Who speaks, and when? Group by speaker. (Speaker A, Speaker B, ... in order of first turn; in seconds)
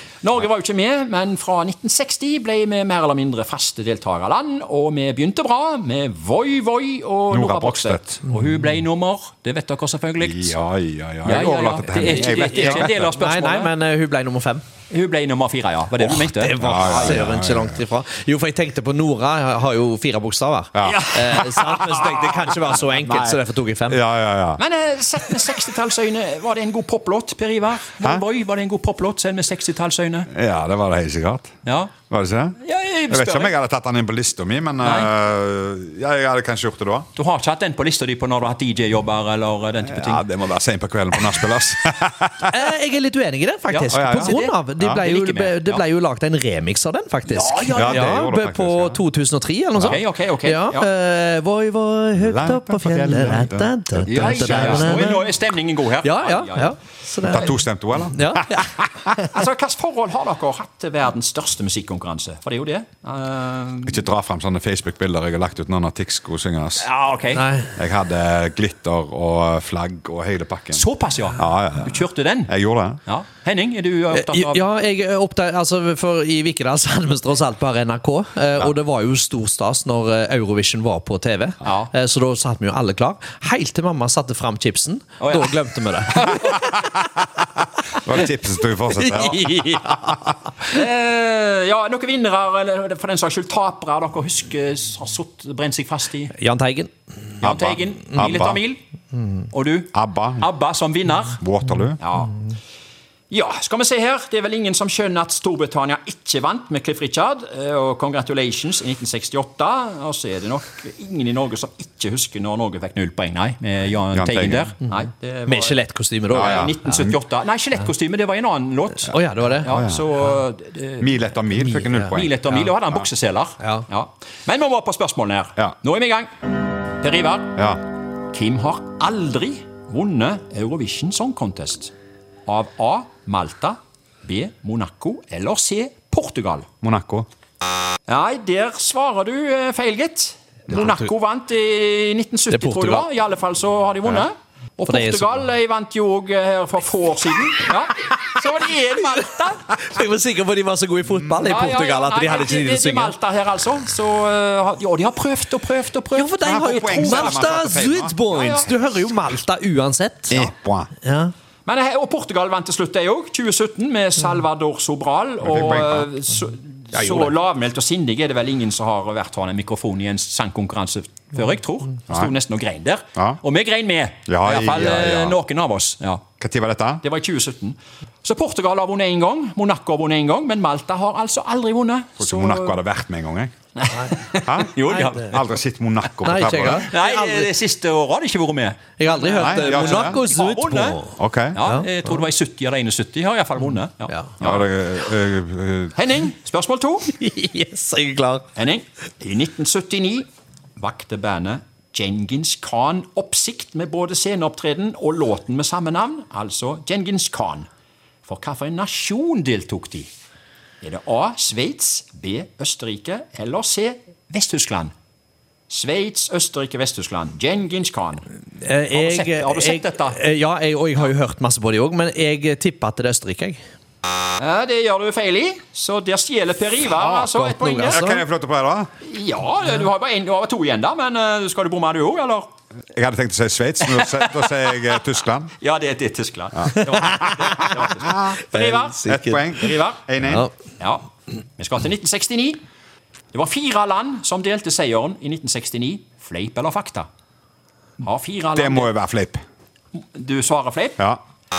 Speaker A: 0.2-10.6, 11.2-13.7, 14.9-17.2, 20.8-22.5, 24.6-30.3, 31.6-31.9, 32.6-33.5, 34.8-35.1, 37.1-40.2, 43.7-45.8, 47.3-48.1, 49.8-50.9, 54.0-56.7, 59.3-64.0, 66.8-67.5, 70.7-72.5, 73.0-74.6, 81.6-81.9, 85.2-86.6, 90.7-96.3, 97.4-98.8, 99.5-101.4, 102.0-102.3, 103.3-115.8, 116.3-126.3, 127.0-127.6, 128.3-131.9, 132.5-136.7, 138.1-149.6, 151.3-157.4, 158.3-158.7, 161.7-176.2, 177.0-182.8, 183.8-185.4, 186.7-191.0, 191.5-194.7, 195.9-197.1, 198.5-200.2, 200.8-207.7, 208.2-210.1, 210.8-214.9, 215.7-218.2, 218.9-220.2, 224.4-228.0, 229.0-232.5, 233.8-235.0, 235.6-240.0, 241.6-242.6, 243.3-247.1, 248.0-248.9, 250.0-251.0
Speaker B: 7.3-8.2, 10.2-13.2, 16.6-17.8, 20.7-21.1, 23.0-24.6, 30.3-31.6, 32.1-32.6, 33.1-37.1, 39.9-42.5, 43.9-45.0, 47.7-49.0, 52.2-55.1, 57.3-59.1, 63.9-66.9, 67.8-70.8, 71.4-73.0, 88.0-90.1, 97.4-98.6, 99.9-100.5, 101.4-102.0, 114.1-114.7, 116.3-117.2, 119.6-120.0, 121.0-122.4, 136.8-137.3, 156.4-158.2, 160.3-160.9, 165.4-166.1, 174.3-175.4, 176.4-177.0, 182.2-183.5, 184.5-186.9, 189.3-190.2, 191.2-191.6, 194.4-195.9, 227.0-228.9, 232.9-235.5, 238.0-240.5, 248.6-249.4
Speaker C: 12.0-14.6, 16.0-24.0, 42.5-55.4, 56.0-57.6, 58.1-58.8, 67.3-67.7, 74.1-86.5, 89.0-90.3, 96.3-96.9, 115.5-116.7, 119.1-119.7, 121.8-122.1, 123.6-123.8, 142.5-143.1, 144.9-145.4, 149.7-153.1, 156.1-160.5, 161.0-161.3, 166.9-167.3, 184.8-185.3, 186.2-187.5, 189.0-191.9, 194.1-194.3, 197.1-198.4, 218.6-223.6, 227.3-228.2, 238.5-239.5, 240.2-240.5